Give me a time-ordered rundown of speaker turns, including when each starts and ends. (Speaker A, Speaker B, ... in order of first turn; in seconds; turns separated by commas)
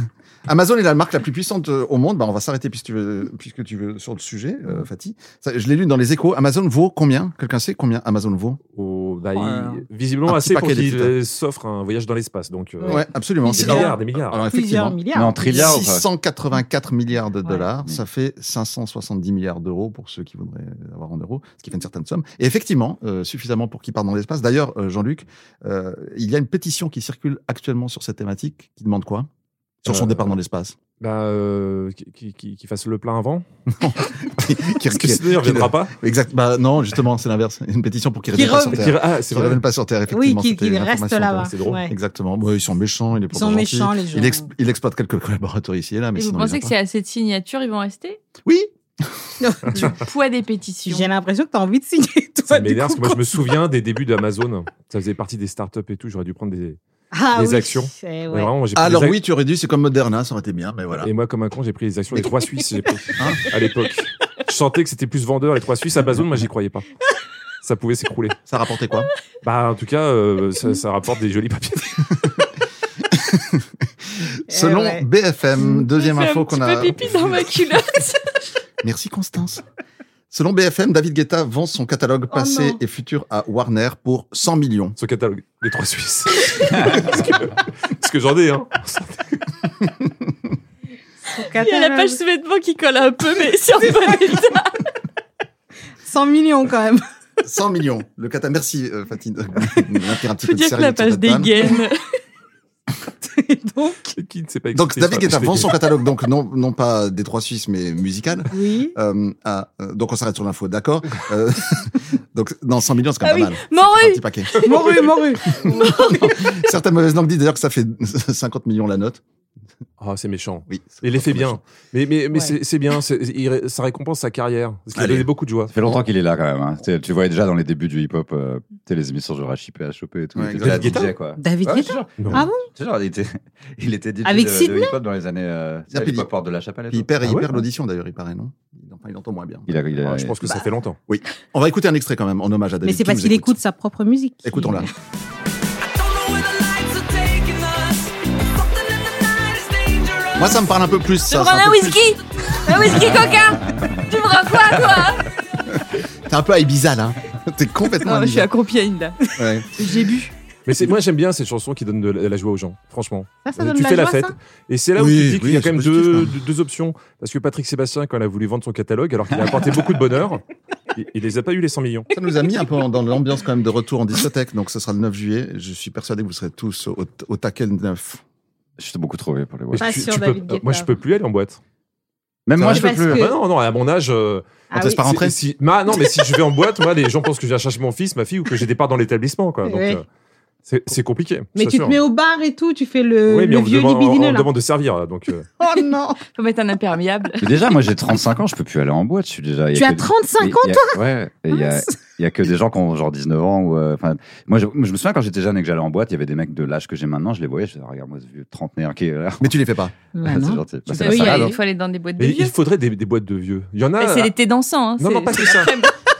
Speaker A: 0.5-8.6, Speaker B: 8.7-14.4, Speaker C: 9.3-9.8, Speaker A: 10.3-11.1, Speaker C: 12.8-13.9, Speaker A: 12.9-29.3, Speaker C: 14.5-15.7, Speaker D: 15.1-16.1, Speaker A: 29.8-30.8, Speaker B: 29.9-30.3, Speaker B: 31.0-33.4, Speaker A: 33.7-46.7, Speaker B: 34.9-35.9, Speaker C: 38.3-38.9, Speaker B: 38.7-39.6, Speaker C: 40.1-41.9, Speaker B: 41.5-41.8, Speaker C: 43.3-44.5, Speaker E: 46.1-48.2, Speaker A: 48.4-49.3, Speaker C: 49.4-49.7, Speaker E: 49.7-51.1, Speaker C: 50.8-53.3, Speaker B: 52.5-56.8, Speaker C: 57.1-58.5, Speaker B: 57.3-59.2, Speaker A: 58.7-61.1, Speaker B: 61.0-66.9, Speaker A: 63.2-63.4, Speaker B: 67.6-68.4, Speaker A: 68.5-69.1, Speaker B: 69.4-72.3, Speaker A: 73.1-73.8, Speaker C: 74.5-75.0, Speaker A: 74.5-77.4, Speaker E: 75.7-78.4, Speaker A: 78.8-79.6, Speaker A: 80.3-85.0, Speaker C: 82.3-82.8, Speaker B: 85.0-89.1, Speaker C: 91.3-92.2, Speaker E: 91.5-94.8, Speaker C: 96.0-97.0, Speaker A: 97.4-101.6, Speaker E: 100.4-102.0, Speaker C: 103.2-104.1, Speaker B: 104.2-105.7, Speaker A: 104.7-115.0, Speaker C: 108.5-108.9, Speaker E: 113.2-114.8, Speaker C: 114.6-116.3, Speaker A: 115.6-119.2, Speaker E: 115.7-116.3, Speaker B: 120.0-125.7, Speaker A: 120.7-121.6, Speaker A: 124.9-125.3, Speaker D: 125.7-137.4, Speaker A: 130.3-131.1, Speaker B: 130.6-131.1, Speaker C: 131.4-132.7, Speaker C: 134.2-134.9, Speaker A: 135.9-136.3, Speaker A: 136.9-139.9, Speaker B: 137.2-137.5, Speaker D: 139.7-140.4, Speaker B: 140.0-141.0, Speaker A: 141.1-143.6, Speaker C: 142.8-144.9, Speaker A: 144.4-144.9, Speaker E: 146.5-147.9, Speaker E: 149.0-150.2, Speaker A: 150.3-152.1, Speaker E: 151.3-155.2, Speaker D: 153.7-154.1, Speaker A: 156.3-158.5, Speaker E: 158.0-160.3, Speaker A: 159.3-159.9, Speaker B: 160.7-170.4, Speaker C: 163.4-164.3, Speaker A: 164.9-166.3, Speaker D: 169.4-169.6, Speaker B: 170.9-172.1, Speaker A: 172.1-178.2, Speaker D: 178.8-180.2, Speaker B: 179.7-181.6, Speaker C: 179.8-180.9, Speaker D: 182.4-183.3, Speaker C: 182.6-183.3, Speaker B: 182.9-190.0, Speaker C: 184.7-185.0, Speaker A: 184.7-185.3, Speaker C: 189.7-190.0, Speaker B: 190.7-192.0, Speaker C: 191.5-194.5, Speaker B: 193.3-195.5, Speaker C: 195.6-196.2, Speaker E: 196.3-197.4, Speaker D: 197.4-209.6, Speaker C: 199.7-201.9, Speaker A: 209.4-209.9, Speaker C: 210.1-211.5, Speaker D: 210.2-211.6, Speaker E: 211.0-212.5, Speaker B: 212.2-214.3, Speaker E: 214.0-215.9, Speaker B: 215.0-215.7